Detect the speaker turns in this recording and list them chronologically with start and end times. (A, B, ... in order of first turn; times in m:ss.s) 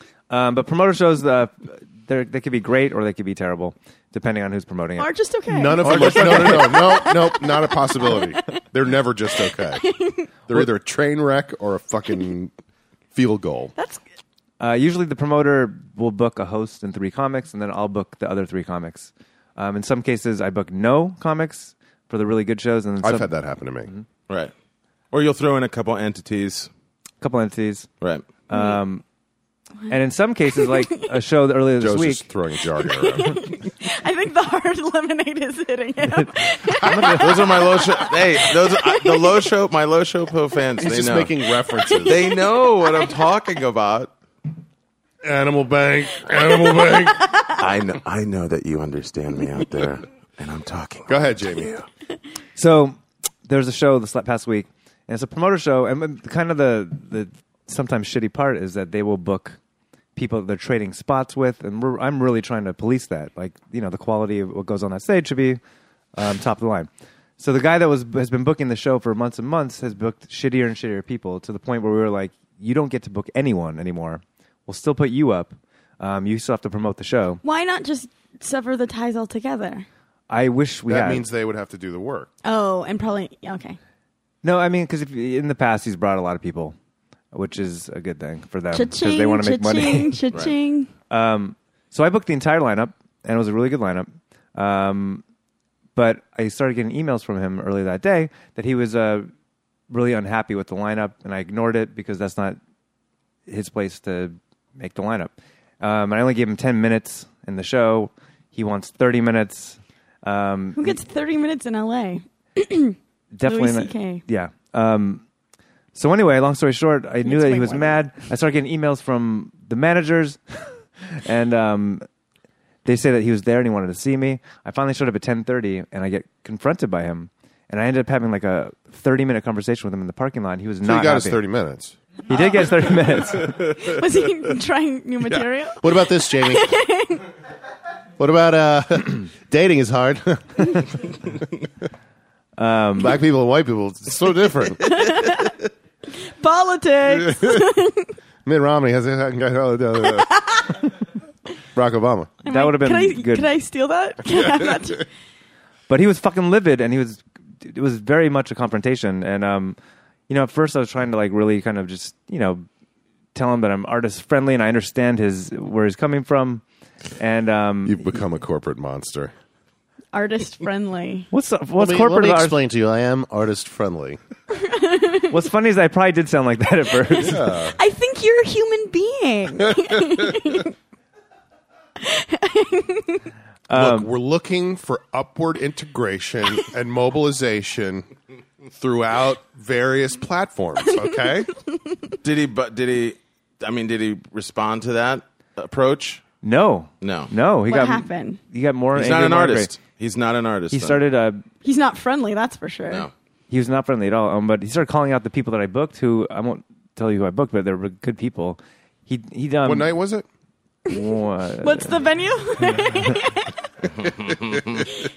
0:00.3-0:05.1 A
0:05.0-0:08.5 B
0:05.5-0:09.9 C
0:05.8-0:07.0 A
0:09.8-0:10.3 B
0:10.5-0:12.5 C
0:13.1-0:13.7 C
0:13.8-0:14.0 B
0:14.6-0:23.3 A
0:23.0-0:23.9 C
0:25.1-0:26.7 D
0:27.2-0:27.9 A
0:28.0-0:28.3 D
0:28.5-0:29.0 A
0:28.5-0:28.8 B
0:29.9-0:32.2 A
0:30.5-0:30.8 B
0:31.8-0:33.4 C
0:32.8-0:39.2 B
0:36.2-0:37.4 A
0:36.9-0:37.3 C
0:37.1-0:41.3 D
0:40.8-0:42.3 C
0:42.0-0:44.1 D
0:45.2-0:47.2 C
0:47.6-0:51.8 D
0:51.1-0:51.8 C
0:52.6-0:59.6 A
1:00.2-1:05.6 A
1:06.2-1:17.4 A
1:17.4-1:19.9 B
1:20.3-1:21.2 A
1:20.9-1:22.3 C
1:22.4-1:23.8 B
1:24.4-1:26.8 A
1:27.3-1:30.2 A
1:28.7-1:30.9 B
1:31.1-1:35.2 A
1:36.0-1:39.3 A
1:39.9-1:42.6 A
1:43.5-1:51.0 A
1:50.8-1:54.2 B
1:53.3-1:55.2 A
1:56.0-2:02.1 A
1:57.2-1:58.0 B
2:02.8-2:11.4 A
2:10.8-2:12.0 C
2:12.3-2:13.6 A
2:12.3-2:17.2 B
2:15.2-2:16.7 C
2:18.2-2:21.4 C
2:22.6-2:23.2 A
2:23.0-2:24.8 C
2:24.9-2:25.5 B
2:26.4-2:28.1 B
2:27.1-2:27.6 C
2:28.4-2:30.3 C
2:30.2-2:30.8 B
2:31.8-2:32.3 C
2:32.4-2:33.5 A
2:32.4-2:35.1 B
2:35.9-2:39.8 A
2:40.3-2:42.7 A
2:43.3-2:46.6 A
2:47.2-2:48.0 A
2:47.8-2:49.3 C
2:50.1-2:51.3 B
2:51.3-2:52.6 A
2:51.8-2:54.2 C
2:54.5-2:55.3 B
2:55.3-2:57.5 A
2:57.2-2:57.8 C
2:57.7-3:00.7 B
2:59.7-3:00.4 C
3:02.0-3:03.2 B
3:03.7-3:04.1 A
3:03.7-3:08.1 C
3:08.8-3:11.5 C
3:12.2-3:16.2 D
3:16.4-3:19.7 A
3:17.0-3:17.3 D
3:17.7-3:18.4 B
3:18.9-3:21.0 D
3:20.7-3:21.4 A
3:21.6-3:23.1 B
3:23.5-3:30.0 A
3:29.6-3:30.3 C
3:30.9-3:32.0 A
3:31.6-3:33.5 B
3:32.7-3:33.2 A
3:33.9-3:34.9 D